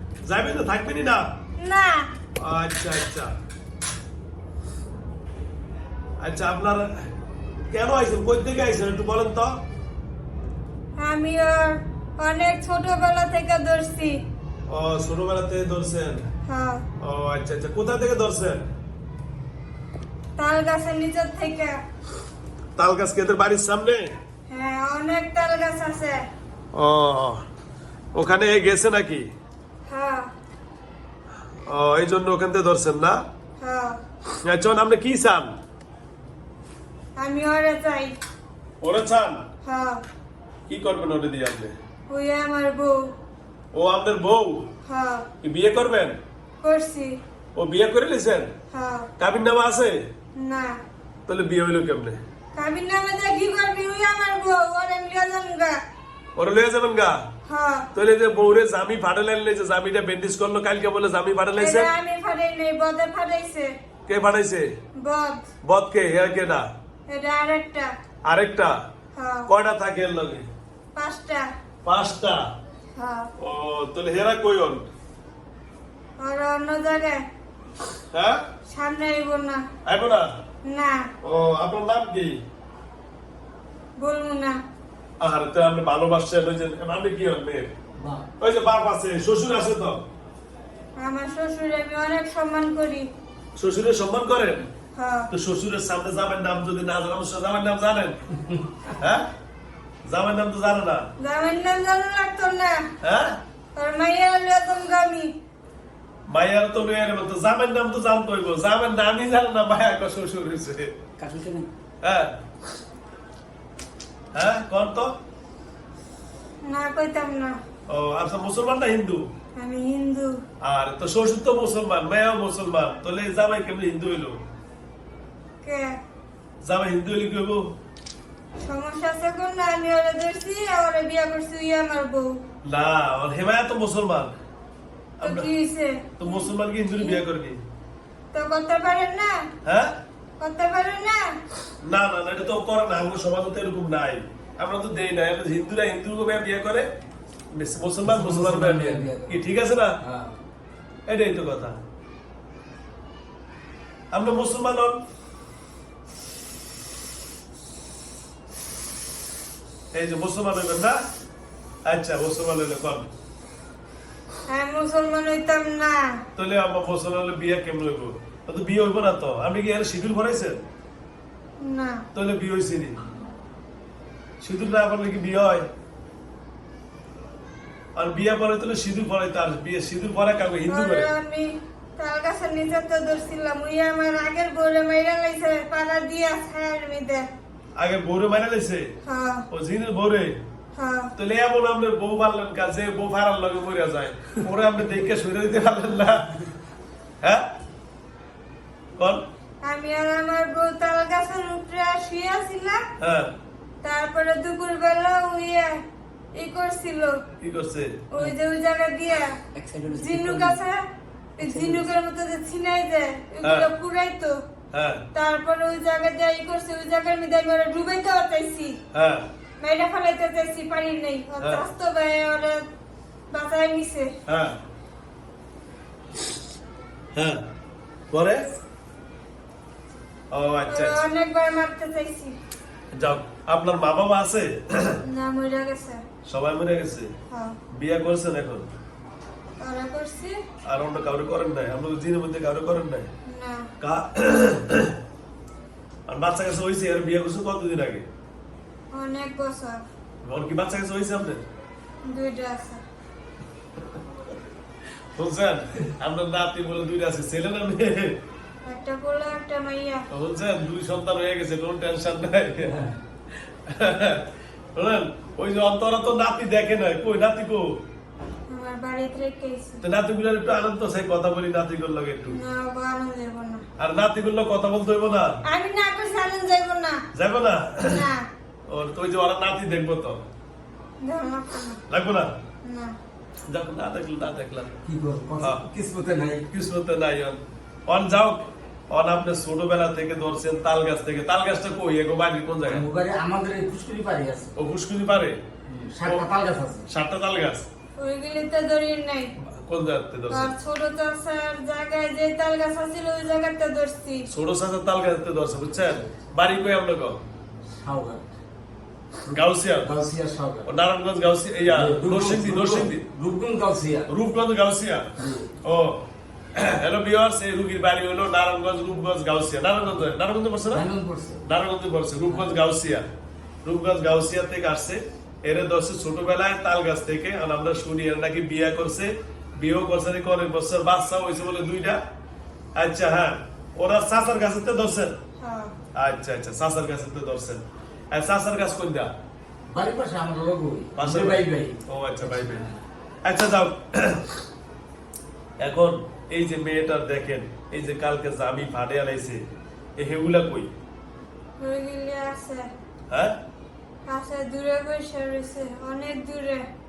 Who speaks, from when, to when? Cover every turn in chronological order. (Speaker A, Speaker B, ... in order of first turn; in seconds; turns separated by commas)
Speaker A: 0.2-1.2, Speaker B: 1.6-2.0, Speaker A: 2.4-3.3, Speaker A: 6.2-7.1, Speaker A: 7.7-9.5, Speaker B: 11.0-14.2, Speaker A: 14.7-16.2, Speaker B: 16.5-16.8, Speaker A: 17.0-18.6, Speaker B: 20.4-21.8, Speaker A: 22.8-24.1, Speaker B: 24.5-26.2, Speaker A: 26.7-27.4, Speaker A: 28.1-29.3, Speaker B: 29.9-30.3, Speaker A: 31.6-33.2, Speaker B: 33.6-34.0, Speaker A: 34.4-35.5, Speaker B: 37.2-38.1, Speaker A: 38.8-39.5, Speaker B: 39.6-40.0, Speaker A: 40.7-41.7, Speaker B: 42.1-42.9, Speaker A: 43.7-44.7, Speaker B: 44.9-45.2, Speaker A: 45.4-46.2, Speaker B: 46.6-47.1, Speaker A: 47.5-48.5, Speaker B: 48.7-49.1, Speaker A: 49.2-50.0, Speaker B: 50.4-50.7, Speaker A: 51.3-52.2, Speaker B: 52.5-55.7, Speaker A: 56.4-57.2, Speaker B: 57.5-57.9, Speaker A: 57.9-61.9, Speaker B: 61.6-63.7, Speaker A: 64.1-64.7, Speaker B: 65.0-65.5, Speaker A: 65.6-66.7, Speaker B: 67.1-67.9, Speaker A: 68.2-68.8, Speaker B: 69.1-69.5, Speaker A: 69.5-70.4, Speaker B: 70.9-71.5, Speaker A: 71.8-72.4, Speaker B: 73.0-73.3, Speaker A: 73.4-74.8, Speaker B: 76.2-77.2, Speaker A: 78.1-78.4, Speaker B: 78.7-79.6, Speaker A: 79.8-80.3, Speaker B: 80.6-81.0, Speaker A: 81.2-82.4, Speaker B: 84.0-84.6, Speaker A: 85.2-87.7, Speaker C: 88.0-88.2, Speaker A: 88.4-90.0, Speaker B: 91.0-93.1, Speaker A: 93.5-94.7, Speaker B: 95.0-95.3, Speaker A: 95.3-98.2, Speaker A: 98.9-99.3, Speaker A: 100.0-101.0, Speaker B: 101.2-102.8, Speaker A: 103.0-103.4, Speaker B: 103.8-105.3, Speaker A: 106.3-110.9, Speaker C: 111.2-111.7, Speaker A: 112.0-112.3, Speaker A: 114.3-115.1, Speaker B: 116.6-117.5, Speaker A: 117.9-119.2, Speaker B: 119.5-120.3, Speaker A: 120.6-124.4, Speaker B: 125.6-125.9, Speaker A: 126.6-127.7, Speaker B: 128.6-132.4, Speaker A: 132.6-134.3, Speaker A: 135.2-135.5, Speaker B: 135.2-137.2, Speaker A: 136.2-137.6, Speaker B: 138.3-139.4, Speaker A: 139.6-139.9, Speaker B: 140.4-141.2, Speaker A: 141.8-146.9, Speaker A: 147.5-149.9, Speaker C: 148.0-149.4, Speaker C: 150.0-150.4, Speaker A: 151.1-151.8, Speaker A: 154.1-155.0, Speaker A: 159.9-161.0, Speaker A: 161.8-163.1, Speaker B: 164.5-166.0, Speaker A: 166.3-170.6, Speaker B: 171.6-172.0, Speaker A: 172.1-172.9, Speaker A: 174.4-175.7, Speaker A: 177.9-181.1, Speaker B: 180.7-187.2, Speaker A: 187.8-188.9, Speaker B: 189.0-189.4, Speaker A: 189.5-190.4, Speaker B: 190.8-191.1, Speaker A: 191.2-196.4, Speaker A: 199.0-199.2, Speaker B: 199.6-202.8, Speaker A: 203.0-203.3, Speaker B: 203.8-205.8, Speaker B: 206.3-207.2, Speaker A: 207.4-208.0, Speaker B: 208.1-210.8, Speaker C: 209.5-210.6, Speaker B: 211.4-214.4, Speaker C: 211.4-211.9, Speaker A: 213.4-213.7, Speaker A: 214.7-215.0, Speaker B: 215.1-218.8, Speaker A: 218.9-219.3, Speaker B: 219.6-222.6, Speaker A: 221.4-221.7, Speaker B: 223.3-224.1, Speaker A: 224.3-224.6, Speaker A: 227.1-227.4, Speaker A: 228.1-228.5, Speaker A: 230.3-231.0, Speaker B: 230.7-232.3, Speaker A: 232.9-235.0, Speaker B: 235.1-236.0, Speaker A: 236.2-237.1, Speaker B: 237.3-237.6, Speaker A: 237.7-238.7, Speaker B: 239.6-240.4, Speaker A: 240.6-243.1, Speaker B: 243.3-243.7, Speaker A: 243.8-245.0, Speaker A: 246.1-248.0, Speaker B: 248.9-249.8, Speaker A: 250.2-251.4, Speaker B: 252.0-252.8, Speaker A: 255.1-258.2, Speaker B: 258.6-260.0, Speaker A: 260.1-262.9, Speaker C: 262.6-263.0, Speaker A: 263.5-267.6, Speaker B: 268.5-269.8, Speaker A: 269.8-272.4, Speaker B: 272.3-273.6, Speaker A: 273.8-275.3, Speaker B: 275.4-277.0, Speaker A: 277.1-278.1, Speaker B: 277.8-278.2, Speaker A: 278.7-280.2, Speaker B: 281.0-281.8, Speaker A: 281.9-282.3, Speaker B: 282.6-282.9, Speaker A: 283.5-284.7, Speaker C: 284.8-286.4, Speaker A: 286.5-292.8, Speaker C: 292.6-294.5, Speaker A: 294.5-295.4, Speaker C: 295.7-296.8, Speaker A: 296.9-297.6, Speaker B: 298.0-299.3, Speaker A: 299.4-300.5, Speaker B: 300.3-304.2, Speaker A: 304.3-307.2, Speaker C: 307.8-308.2, Speaker C: 309.2-310.7, Speaker A: 309.3-309.9, Speaker A: 310.6-313.0, Speaker C: 311.7-314.1, Speaker A: 314.1-315.1, Speaker C: 315.2-315.5, Speaker A: 315.6-316.0, Speaker A: 316.5-320.9, Speaker C: 320.7-321.4, Speaker A: 321.4-323.0, Speaker C: 322.2-322.5, Speaker A: 323.6-332.0, Speaker A: 332.8-335.1, Speaker B: 335.4-335.7, Speaker A: 335.9-339.1, Speaker C: 339.7-342.7, Speaker A: 341.0-342.7, Speaker A: 343.2-344.3, Speaker A: 345.6-349.4, Speaker A: 350.0-350.7, Speaker B: 351.6-352.6, Speaker A: 353.1-353.4, Speaker B: 354.1-356.6